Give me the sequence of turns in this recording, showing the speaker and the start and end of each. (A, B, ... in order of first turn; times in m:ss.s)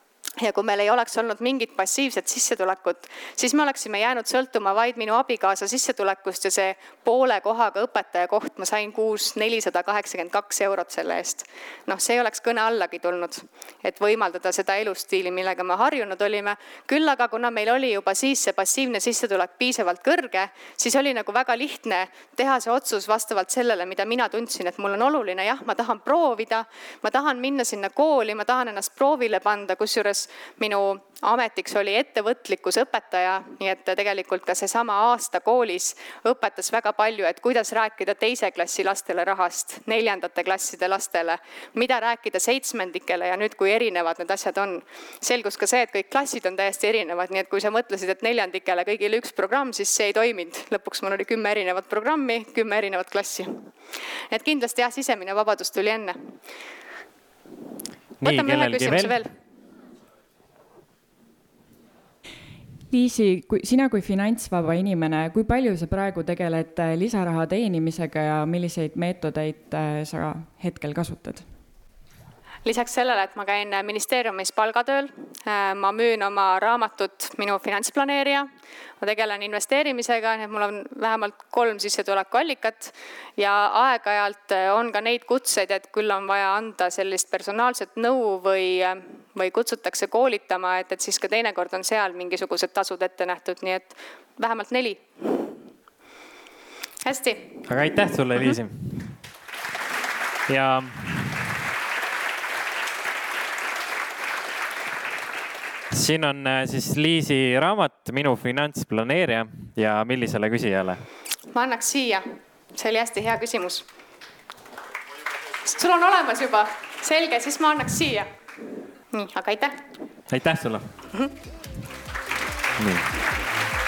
0:00.4-0:53.7 A
0:54.3-0:56.4 A
0:58.2-0:59.2 B
0:58.2-0:59.3 A
1:02.9-1:11.5 C
1:12.6-1:18.5 A
1:19.0-1:35.6 A
1:37.0-1:37.7 A
1:37.7-1:39.2 B
1:40.5-1:41.5 B
1:45.9-1:51.0 B
1:51.5-1:53.8 A
1:55.6-1:58.3 A
1:59.1-1:59.8 A
2:00.3-2:01.0 B
2:02.8-2:03.1 B